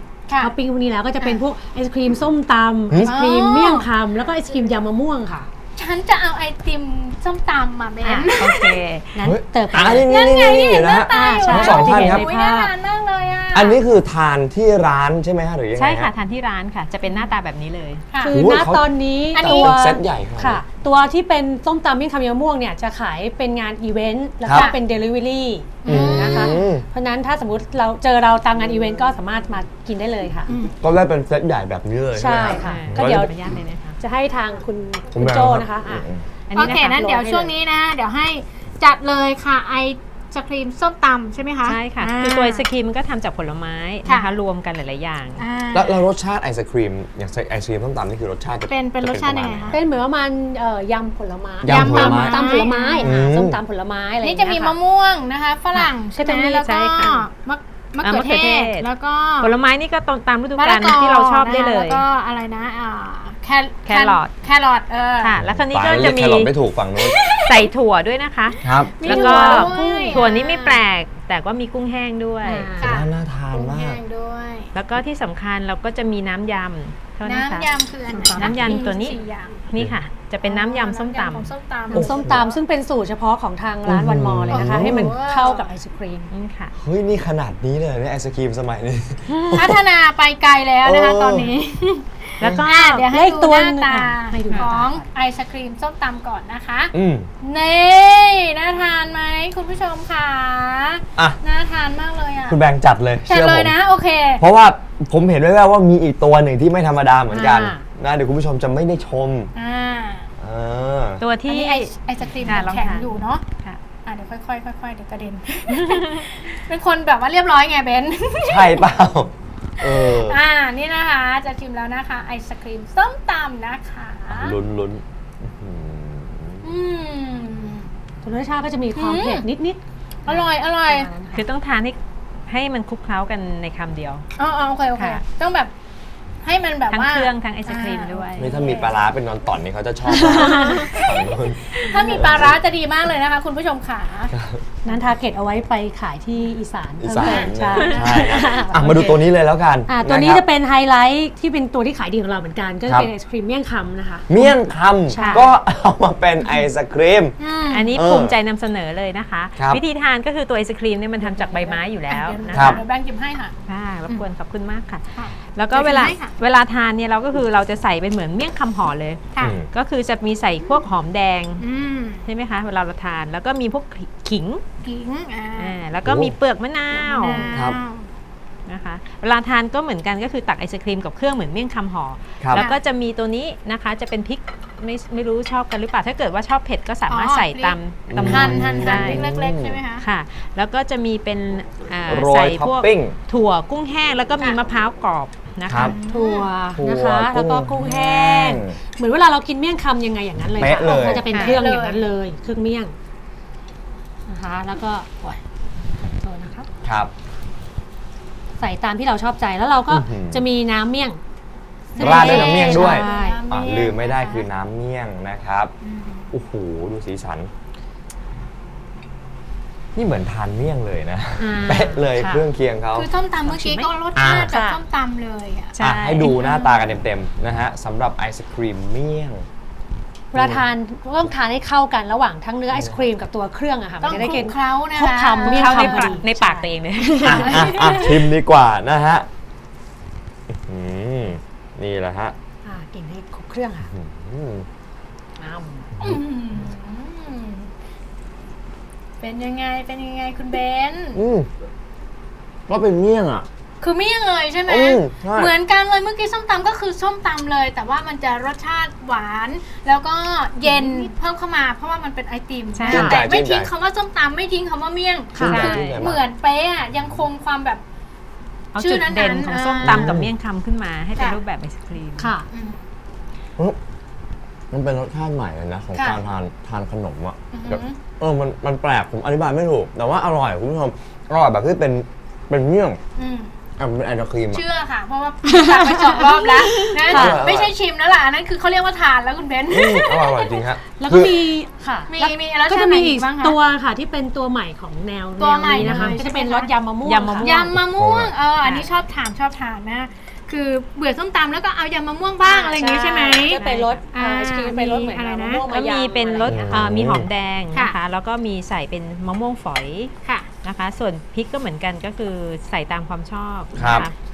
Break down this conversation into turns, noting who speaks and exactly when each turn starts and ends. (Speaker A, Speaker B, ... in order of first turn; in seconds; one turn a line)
Speaker A: 0.4-5.5
Speaker B: 2.9-3.1
Speaker C: 3.0-3.9
Speaker C: 5.8-8.8
Speaker D: 8.0-9.3
Speaker A: 9.1-10.1
Speaker B: 9.2-12.3
Speaker C: 10.1-13.8
Speaker A: 11.1-12.7
Speaker B: 13.5-16.1
Speaker D: 15.8-18.1
Speaker C: 17.0-17.3
Speaker C: 18.1-18.4
Speaker A: 18.2-30.5
Speaker B: 18.3-20.6
Speaker C: 19.3-19.8
Speaker B: 24.4-24.7
Speaker C: 25.8-26.6
Speaker B: 25.8-26.8
Speaker C: 30.5-30.7
Speaker B: 30.8-33.3
Speaker A: 32.1-33.3
Speaker D: 32.5-34.0
Speaker A: 34.0-36.0
Speaker B: 35.1-36.2
Speaker D: 36.5-37.0
Speaker C: 36.5-42.6
Speaker A: 36.6-37.5
Speaker D: 41.6-45.4
Speaker C: 44.0-44.3
Speaker C: 45.4-46.0
Speaker B: 45.7-49.8
Speaker C: 48.7-49.8
Speaker A: 49.7-54.8
Speaker B: 51.6-53.6
Speaker C: 51.7-53.1
Speaker C: 54.2-59.5
Speaker D: 55.7-57.3
Speaker A: 56.1-56.6
Speaker D: 58.0-58.9
Speaker D: 59.4-62.0
Speaker C: 60.5-65.3
Speaker D: 63.9-64.3
Speaker D: 65.2-66.5
Speaker B: 65.4-67.2
Speaker C: 67.0-67.7
Speaker D: 67.4-72.7
Speaker B: 68.6-69.0
Speaker A: 69.0-70.2
Speaker C: 69.0-70.8
Speaker A: 72.4-73.0
Speaker C: 72.8-74.7
Speaker B: 72.8-74.0
Speaker D: 74.7-77.7
Speaker C: 77.2-79.6
Speaker A: 78.1-78.9
Speaker D: 78.3-79.2
Speaker D: 79.7-81.5
Speaker C: 80.4-82.5
Speaker A: 81.9-86.3
Speaker B: 81.9-82.4
Speaker B: 83.8-85.1
Speaker C: 84.5-85.7
Speaker D: 86.3-86.7
Speaker B: 86.8-89.8
Speaker C: 89.5-102.6
Speaker B: 90.8-91.5
Speaker D: 92.4-93.1
Speaker A: 93.0-95.1
Speaker B: 96.9-97.3
Speaker B: 102.5-103.7
Speaker C: 103.2-104.4
Speaker B: 104.4-109.5
Speaker A: 107.3-107.8
Speaker C: 109.5-110.3
Speaker B: 110.4-111.2
Speaker D: 111.2-113.8
Speaker C: 111.5-113.4
Speaker C: 114.0-118.9
Speaker D: 115.7-116.3
Speaker B: 118.4-120.4
Speaker C: 119.8-124.6
Speaker B: 124.3-126.6
Speaker C: 126.6-127.9
Speaker A: 128.2-131.4
Speaker C: 128.9-129.5
Speaker C: 130.2-131.1
Speaker D: 131.3-134.2
Speaker C: 134.4-135.7
Speaker D: 134.9-135.2
Speaker C: 136.4-139.0
Speaker D: 136.9-138.6
Speaker B: 138.4-142.6
Speaker A: 140.1-141.1
Speaker C: 140.4-141.1
Speaker D: 141.7-142.2
Speaker C: 141.8-144.3
Speaker B: 144.3-144.6
Speaker A: 144.8-148.8
Speaker B: 147.0-150.4
Speaker C: 147.2-147.5
Speaker D: 147.7-149.2
Speaker A: 149.9-154.6
Speaker B: 154.3-157.3
Speaker A: 155.1-155.5
Speaker D: 155.2-155.5
Speaker C: 157.4-157.9
Speaker D: 157.7-162.8
Speaker B: 157.9-158.3
Speaker B: 159.6-159.8
Speaker C: 161.2-163.5
Speaker B: 162.5-162.8
Speaker D: 163.7-171.7
Speaker C: 165.2-166.3
Speaker B: 169.4-169.7
Speaker C: 171.6-172.2
Speaker D: 172.2-174.6
Speaker C: 174.8-175.8
Speaker D: 175.6-177.6
Speaker B: 176.0-176.3
Speaker C: 176.9-178.1
Speaker A: 177.3-177.6
Speaker B: 177.5-177.8
Speaker D: 178.7-189.3
Speaker B: 182.4-182.7
Speaker C: 187.1-190.1
Speaker B: 188.1-189.8
Speaker D: 190.0-196.0
Speaker B: 192.1-193.2
Speaker B: 195.7-196.0
Speaker C: 195.7-196.5
Speaker A: 196.1-202.9
Speaker B: 196.7-198.8
Speaker B: 200.6-201.3
Speaker C: 200.8-202.0
Speaker D: 201.3-201.6
Speaker A: 204.3-205.4
Speaker A: 206.2-206.7
Speaker B: 206.8-207.1
Speaker A: 208.6-211.2
Speaker B: 209.9-210.4
Speaker C: 211.9-214.4
Speaker A: 211.9-213.4
Speaker B: 212.0-215.7
Speaker C: 215.8-216.3
Speaker B: 216.3-217.5
Speaker B: 219.9-223.1
Speaker A: 221.4-222.5
Speaker C: 222.9-225.7
Speaker D: 223.4-223.9
Speaker B: 224.1-224.5
Speaker A: 224.2-224.8
Speaker D: 225.7-226.6
Speaker B: 225.8-229.4
Speaker B: 230.3-230.6
Speaker A: 230.3-238.0
Speaker C: 234.0-236.2
Speaker D: 235.4-238.1
Speaker B: 237.2-239.2
Speaker B: 240.5-242.3
Speaker A: 242.6-243.9
Speaker B: 243.9-244.7
Speaker A: 245.4-246.0
Speaker C: 246.0-247.7
Speaker C: 249.2-251.2
Speaker B: 251.1-251.5
Speaker B: 252.7-253.4
Speaker C: 253.8-267.8
Speaker B: 254.7-255.5
Speaker D: 260.6-261.1
Speaker D: 262.7-263.2
Speaker B: 262.9-263.7
Speaker A: 262.9-263.2
Speaker A: 265.3-265.7
Speaker B: 265.4-266.2
Speaker D: 265.4-266.0
Speaker D: 268.7-272.3
Speaker C: 268.8-270.2
Speaker B: 269.8-270.3
Speaker A: 272.2-272.5
Speaker C: 272.5-272.8
Speaker B: 274.7-283.0
Speaker C: 275.9-276.2
Speaker C: 277.5-278.0
Speaker C: 283.2-283.5
Speaker B: 283.8-284.6
Speaker C: 284.5-290.6
Speaker A: 285.4-287.4
Speaker B: 287.1-287.7
Speaker B: 289.7-291.4
Speaker A: 291.0-297.5
Speaker C: 292.1-293.6
Speaker C: 295.4-296.7
Speaker D: 295.8-296.2
Speaker D: 297.0-297.8
Speaker C: 297.4-303.6
Speaker B: 297.7-298.3
Speaker D: 298.6-298.9
Speaker A: 302.4-306.7
Speaker D: 303.5-304.0
Speaker C: 304.1-305.6
Speaker D: 305.7-314.1
Speaker B: 306.4-307.3
Speaker B: 313.8-314.1